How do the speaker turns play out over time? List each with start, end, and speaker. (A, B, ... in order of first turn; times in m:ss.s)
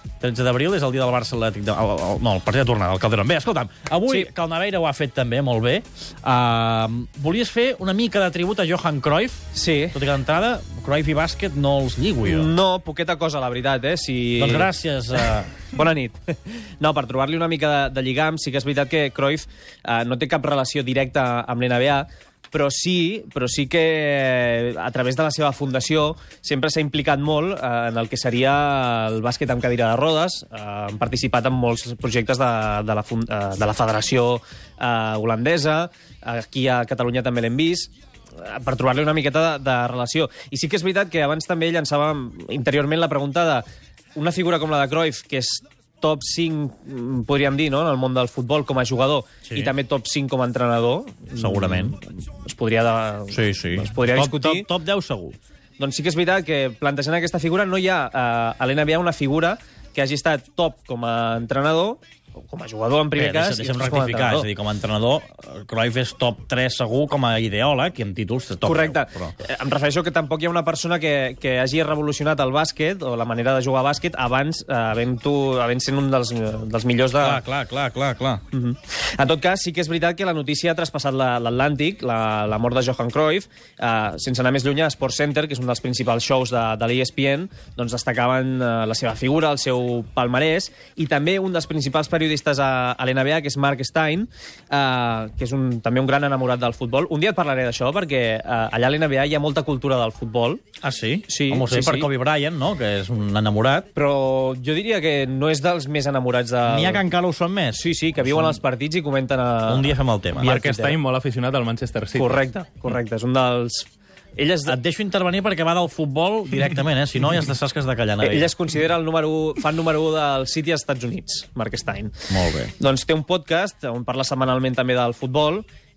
0:00.2-0:12.5 A
0:09.5-0:10.0 B
0:12.2-0:14.7 B
0:14.4-0:15.5 A
0:15.6-0:54.7 B
0:49.5-0:49.7 A
0:51.4-0:52.0 A
0:53.3-0:55.4 A
0:55.8-1:04.5 B
1:03.1-1:09.4 A
1:08.6-1:17.4 B
1:17.2-1:18.4 A
1:18.5-1:40.6 B
1:40.8-1:43.9 A
1:41.3-1:42.1 B
1:43.9-1:47.0 B
1:46.6-1:48.6 A
1:47.7-1:51.0 B
1:49.7-1:50.5 A
1:50.4-1:52.4 C
1:52.2-1:54.8 B
1:54.7-1:58.5 A
1:58.2-2:02.3 B
2:02.3-2:02.7 A
2:02.8-2:05.7 B